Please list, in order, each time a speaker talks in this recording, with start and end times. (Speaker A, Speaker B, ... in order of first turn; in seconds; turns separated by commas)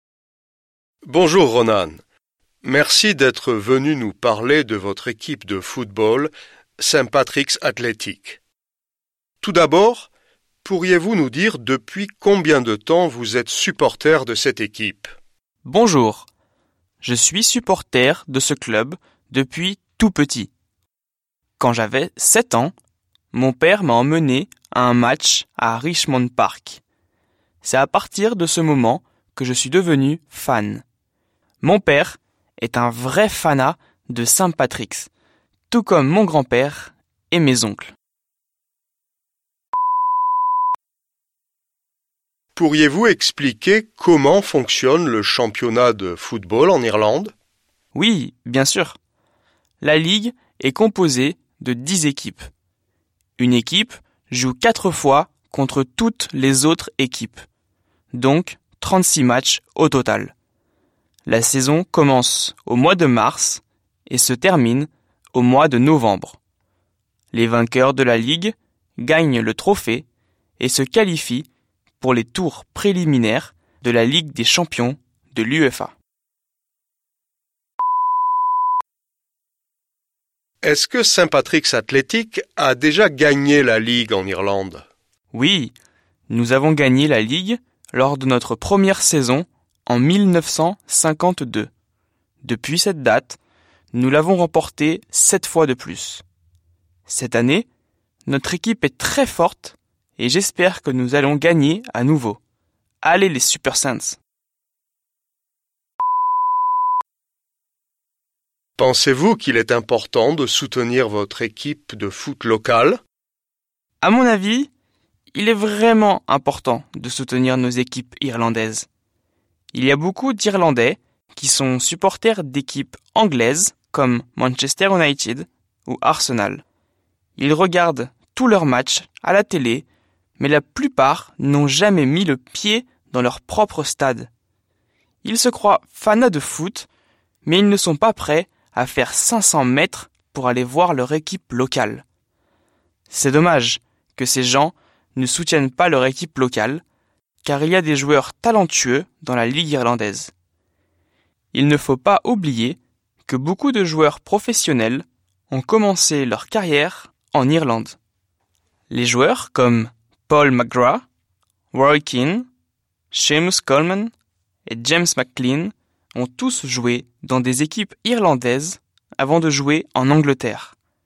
Speaker A: 1.1-2.0, Speaker A: 2.6-8.4, Speaker A: 9.4-10.1, Speaker A: 10.6-15.1, Speaker B: 15.6-16.3, Speaker B: 17.0-20.5, Speaker B: 21.6-22.7, Speaker B: 23.3-26.8, Speaker B: 27.6-30.8, Speaker B: 31.6-35.1, Speaker B: 35.7-37.9, Speaker A: 42.5-47.3, Speaker B: 47.9-49.0, Speaker B: 49.8-52.5, Speaker B: 53.4-57.5, Speaker B: 58.1-60.3, Speaker B: 61.2-66.4, Speaker B: 67.3-70.0, Speaker B: 70.6-71.5, Speaker B: 72.0-76.0, Speaker A: 80.6-84.8, Speaker B: 85.3-85.8, Speaker B: 86.3-91.7, Speaker B: 92.4-93.4, Speaker B: 93.9-96.2, Speaker B: 97.1-97.7, Speaker B: 98.3-102.4, Speaker B: 103.0-104.2, Speaker A: 108.8-113.0, Speaker B: 114.0-114.7, Speaker B: 115.3-118.9, Speaker B: 119.7-126.6, Speaker B: 127.4-129.8, Speaker B: 130.4-134.3, Speaker B: 135.2-136.9, Speaker B: 137.4-142.0, Speaker B: 143.1-146.8, Speaker B: 147.4-150.3, Speaker B: 151.5-158.0, Speaker B: 158.9-161.0, Speaker B: 161.7-162.4, Speaker B: 163.1-164.1, Speaker B: 164.7-170.7